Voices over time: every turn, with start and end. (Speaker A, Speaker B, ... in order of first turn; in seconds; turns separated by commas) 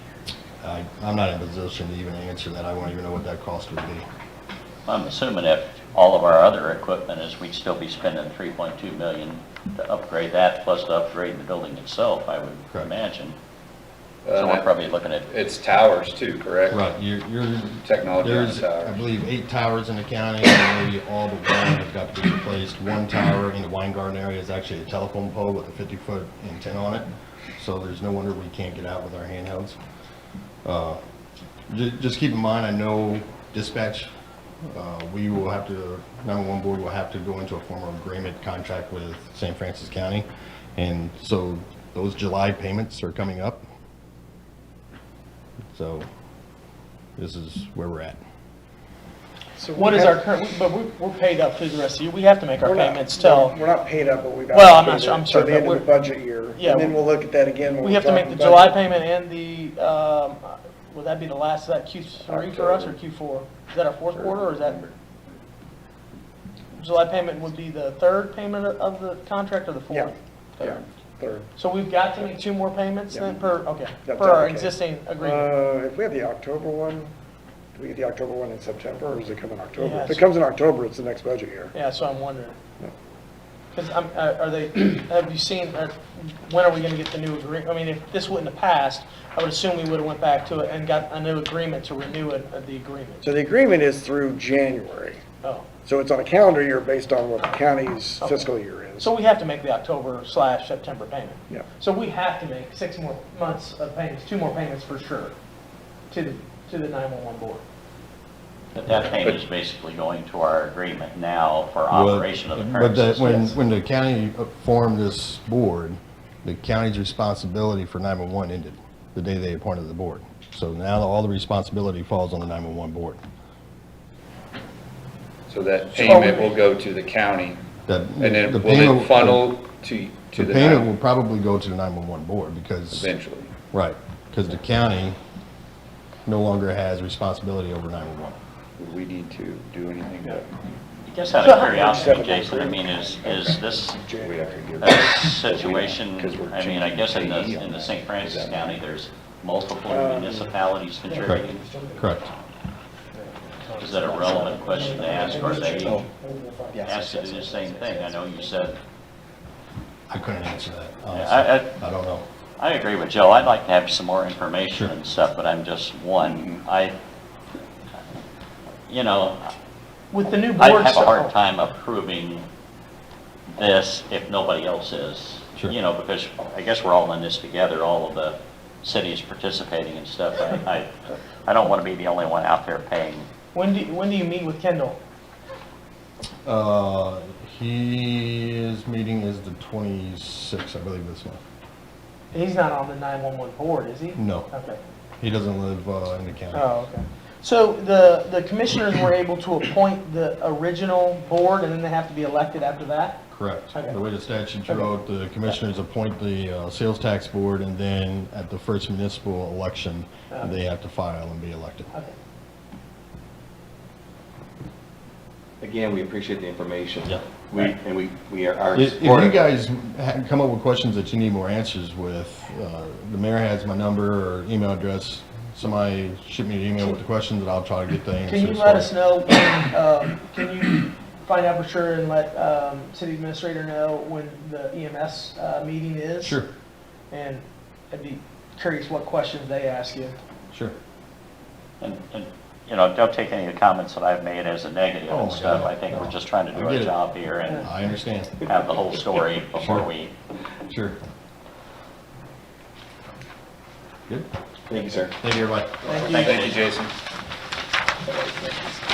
Speaker A: 0.6-4.1, Speaker B: 4.9-13.4, Speaker C: 14.2-14.8, Speaker B: 14.3-15.3, Speaker C: 15.3-16.8, Speaker A: 16.7-29.8, Speaker C: 17.9-19.0, Speaker A: 30.6-31.0, Speaker A: 31.7-34.1, Speaker A: 34.6-43.7, Speaker A: 45.7-46.1, Speaker A: 47.2-48.2, Speaker D: 49.6-50.2, Speaker E: 49.8-53.6, Speaker D: 52.6-58.8, Speaker E: 54.5-55.9, Speaker E: 56.6-57.0, Speaker E: 57.8-64.9, Speaker C: 62.5-62.8, Speaker E: 66.8-70.8, Speaker D: 69.9-71.5, Speaker E: 71.6-75.5, Speaker D: 74.0-77.1, Speaker D: 77.8-81.7, Speaker E: 79.8-80.2, Speaker E: 81.7-82.6, Speaker E: 83.7-93.2, Speaker D: 93.2-95.2, Speaker D: 95.8-99.1, Speaker E: 99.0-105.3, Speaker E: 106.1-107.6, Speaker B: 108.8-113.5, Speaker A: 111.9-123.2, Speaker C: 125.5-127.6, Speaker E: 126.0-126.6, Speaker A: 127.9-129.5, Speaker C: 128.2-130.9, Speaker A: 130.3-133.1, Speaker C: 132.9-133.5, Speaker A: 133.7-135.2, Speaker A: 136.3-138.4, Speaker C: 138.8-140.5, Speaker B: 141.1-144.0, Speaker E: 141.2-142.5, Speaker D: 141.4-144.7, Speaker F: 144.2-148.8, Speaker B: 144.8-151.6, Speaker D: 149.9-150.4, Speaker D: 151.5-152.0, Speaker A: 152.0-152.3, Speaker B: 153.8-156.0, Speaker D: 154.7-156.4, Speaker E: 154.7-155.0, Speaker F: 155.8-156.1, Speaker F: 156.7-158.2, Speaker B: 156.8-158.8, Speaker A: 160.1-162.3, Speaker B: 161.1-161.7, Speaker B: 162.6-166.9, Speaker F: 166.2-166.6, Speaker B: 168.9-169.5, Speaker E: 170.1-171.3, Speaker B: 170.6-172.5, Speaker B: 173.5-183.3, Speaker E: 183.5-185.0, Speaker A: 186.4-191.4, Speaker E: 192.3-194.8, Speaker A: 194.2-194.5, Speaker A: 195.2-196.7, Speaker E: 196.5-204.0, Speaker A: 203.3-211.9, Speaker F: 215.6-219.4, Speaker A: 218.8-228.9, Speaker E: 228.3-236.4, Speaker A: 236.2-236.5, Speaker E: 237.1-240.2, Speaker B: 241.8-247.7, Speaker A: 245.1-248.4, Speaker B: 248.5-250.1, Speaker A: 249.6-249.9, Speaker A: 250.7-251.0, Speaker F: 254.7-255.1, Speaker A: 255.2-256.1, Speaker E: 255.9-256.4, Speaker B: 256.0-256.6, Speaker C: 256.1-256.9